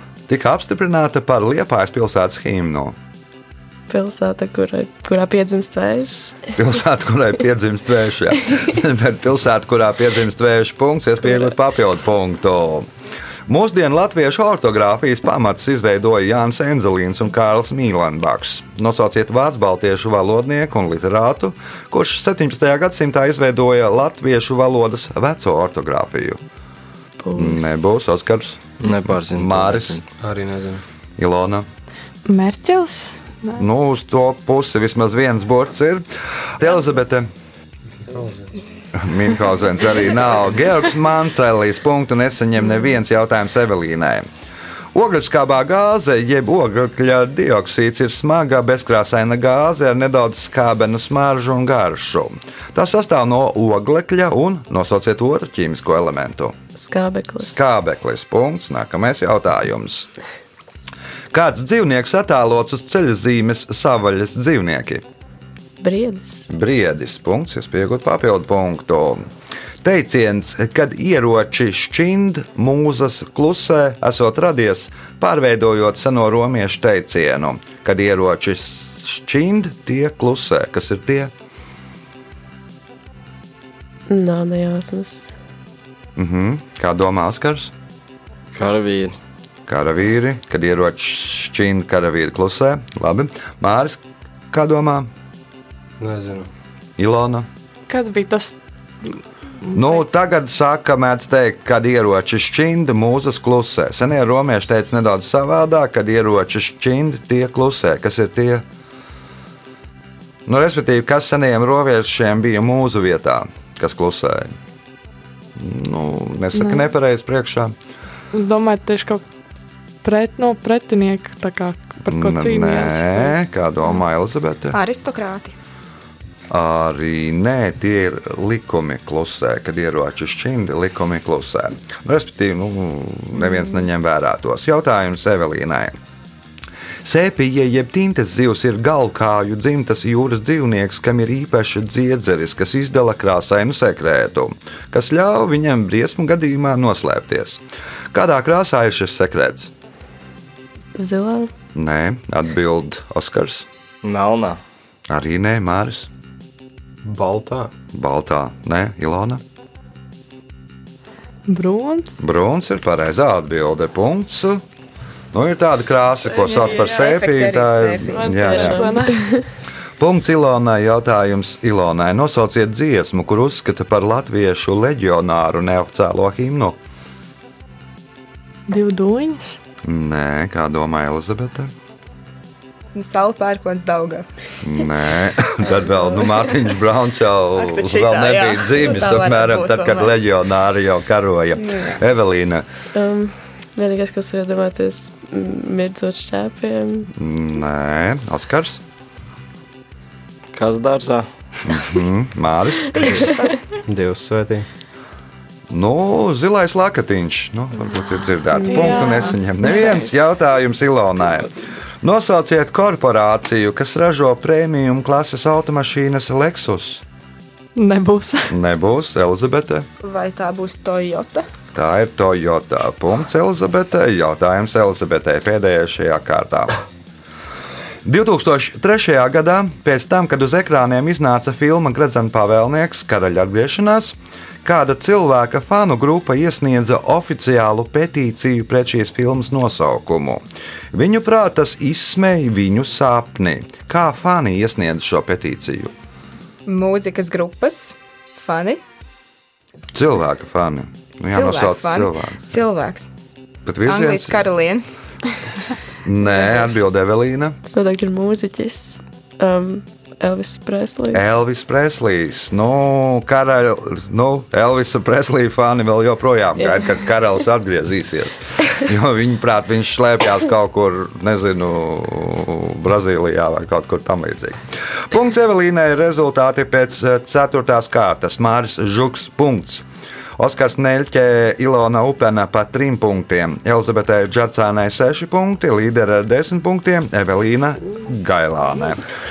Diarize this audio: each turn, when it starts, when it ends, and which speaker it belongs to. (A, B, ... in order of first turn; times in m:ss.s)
0:00.3-0:02.9 A
0:03.9-0:06.4 B
0:06.5-0:12.9 A
0:13.5-0:26.4 A
0:27.2-0:27.9 B
0:27.3-0:30.0 A
0:28.8-0:30.0 C
0:30.2-0:30.8 D
0:31.2-0:31.7 A
0:32.2-0:33.6 E
0:33.6-0:37.3 A
0:38.0-0:38.6 D
0:38.9-0:44.2 A
0:44.9-0:56.5 A
0:56.7-0:57.6 B
0:57.4-1:00.1 A
1:01.3-1:05.0 A
1:05.8-1:06.5 B
1:06.5-1:09.3 A
1:09.8-1:21.3 A
1:24.1-1:25.3 B
1:26.2-1:27.7 A
1:28.5-1:29.1 C
1:29.7-1:35.1 A
1:36.0-1:36.5 D
1:37.0-1:37.5 A
1:37.9-1:40.1 E
1:39.7-1:48.6 A
1:50.4-1:54.5 A
1:55.6-1:57.7 A
1:56.5-1:56.9 E
1:58.3-1:59.2 E
2:00.0-2:03.4 E
2:02.1-2:04.8 A
2:04.7-2:05.5 F
2:06.5-2:15.9 A
2:17.0-2:27.6 A
2:28.1-2:29.7 A
2:30.9-2:31.5 B
2:31.7-2:33.7 A
2:34.0-2:34.6 C
2:35.1-2:36.1 A
2:37.0-2:37.7 D
2:37.9-2:39.4 A
2:41.5-2:42.2 E
2:42.2-2:44.6 A
2:45.3-2:48.9 A
2:46.4-2:48.3 F
2:46.4-2:46.9 E
2:48.1-2:49.2 E
2:48.3-2:49.5 B
2:50.0-2:56.8 A
2:58.7-2:59.6 E
2:59.8-3:01.7 A
3:02.9-3:04.3 F
3:04.6-3:12.6 A
3:07.6-3:10.2 F
3:11.6-3:12.0 F
3:12.9-3:17.1 B
3:17.1-3:18.8 A
3:20.5-3:21.3 C
3:21.6-3:23.4 A
3:22.9-3:23.6 F
3:23.9-3:24.7 D
3:25.7-3:37.0 A
3:28.5-3:29.3 B
3:28.6-3:30.0 E
3:37.8-3:38.5 E
3:38.5-3:39.9 A
3:40.0-3:41.5 F
3:41.7-3:46.8 A
3:48.0-4:05.9 A
4:06.6-4:08.8 F
4:09.9-4:12.4 A
4:11.3-4:13.1 F
4:13.6-4:14.4 A
4:13.8-4:14.8 F
4:16.0-4:17.6 A
4:16.2-4:16.7 F
4:17.6-4:21.4 B
4:21.1-4:39.8 A
4:40.4-4:49.0 A